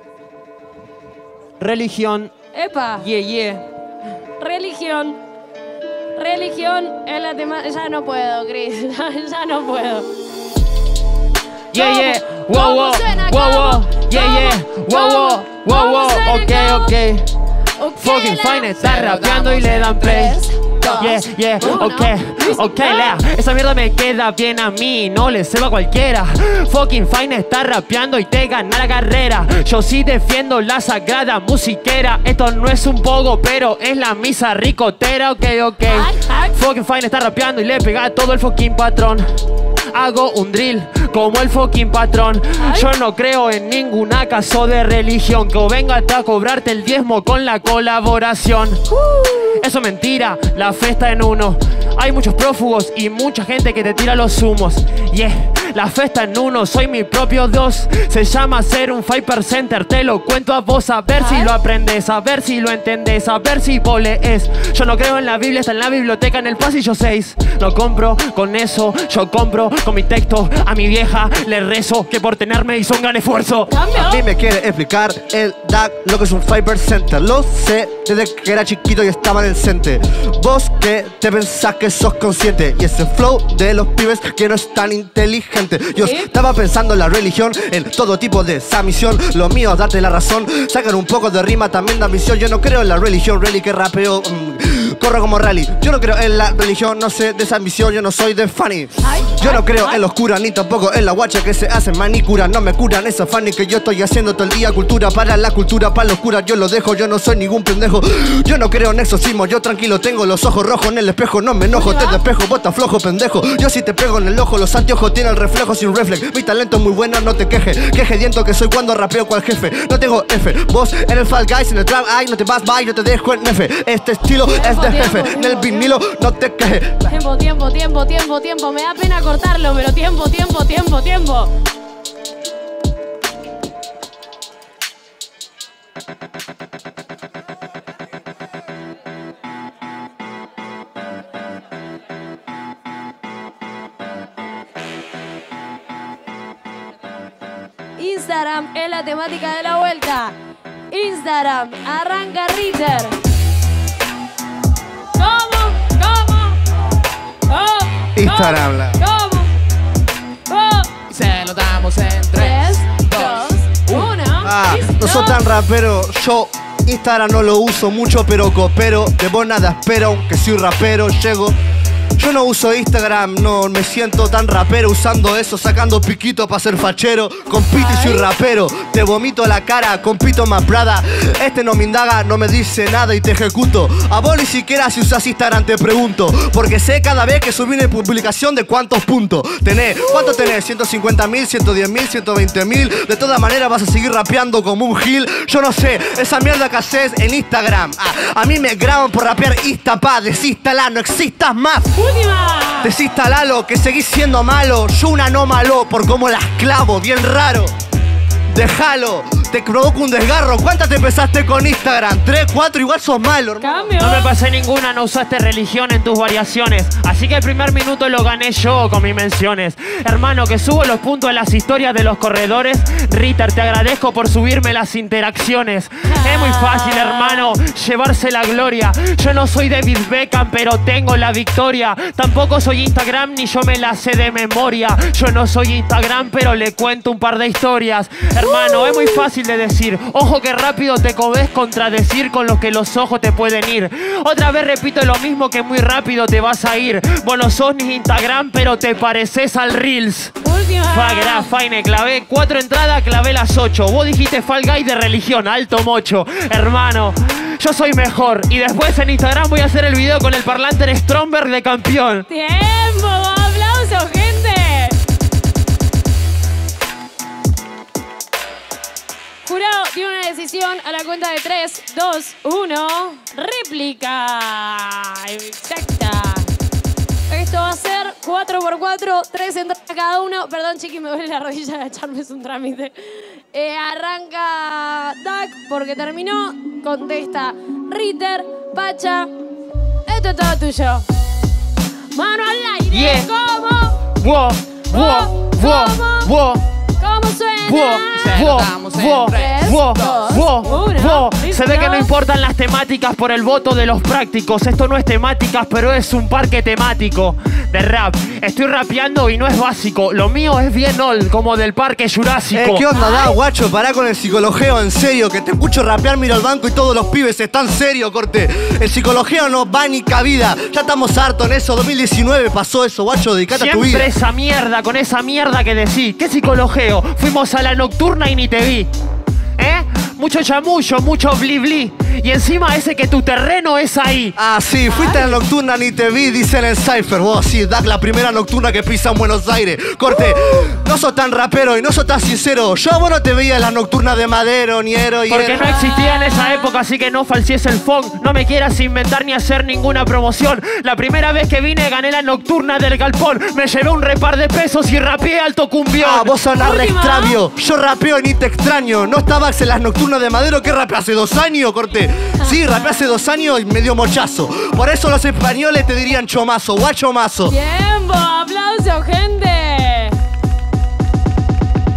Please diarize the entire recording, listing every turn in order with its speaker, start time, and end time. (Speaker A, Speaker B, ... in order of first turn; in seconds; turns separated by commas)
Speaker A: 1.6-2.3, Speaker B: 2.5-3.1, Speaker A: 3.0-3.6, Speaker B: 4.4-5.2, Speaker B: 6.1-10.1, Speaker A: 11.7-17.3, Speaker B: 11.7-16.9, Speaker B: 17.8-18.7, Speaker A: 18.0-20.4, Speaker C: 18.7-21.1, Speaker B: 20.1-23.2, Speaker A: 21.0-39.2, Speaker B: 35.9-36.5, Speaker A: 39.9-73.7, Speaker B: 42.6-42.9, Speaker B: 61.2-61.5, Speaker B: 73.7-74.2, Speaker D: 73.9-127.0, Speaker B: 86.0-86.3, Speaker B: 99.0-100.0, Speaker B: 111.7-112.2, Speaker B: 124.5-126.0, Speaker B: 127.1-131.5, Speaker B: 148.0-150.3, Speaker B: 150.9-153.2, Speaker B: 155.1-156.6, Speaker B: 157.5-159.5, Speaker D: 158.2-159.0, Speaker B: 160.5-160.9, Speaker C: 161.1-164.1, Speaker B: 162.3-165.4, Speaker D: 164.4-171.6, Speaker D: 172.2-201.9, Speaker B: 177.7-178.3, Speaker B: 201.9-202.9, Speaker D: 202.8-207.7, Speaker D: 208.5-214.0, Speaker B: 213.6-214.3, Speaker A: 214.0-250.4, Speaker B: 226.1-227.5, Speaker B: 238.5-239.2, Speaker B: 250.4-251.5, Speaker A: 250.9-262.3, Speaker B: 262.3-264.9, Speaker B: 269.4-276.5, Speaker B: 277.3-289.3, Speaker B: 290.1-291.0, Speaker B: 292.1-294.1, Speaker A: 292.9-293.3, Speaker A: 294.1-296.6, Speaker B: 294.9-296.3, Speaker B: 297.0-298.5, Speaker A: 297.6-312.9, Speaker C: 298.1-300.3, Speaker B: 299.3-302.1, Speaker D: 312.5-324.1, Speaker B: 312.9-313.4, Speaker A: 323.5-328.9, Speaker A: 329.6-334.4, Speaker D: 334.4-345.7, Speaker B: 334.9-335.4, Speaker A: 345.3-356.3, Speaker B: 345.6-346.7, Speaker D: 356.0-367.5, Speaker B: 356.6-357.4, Speaker B: 362.4-363.0, Speaker B: 367.5-370.2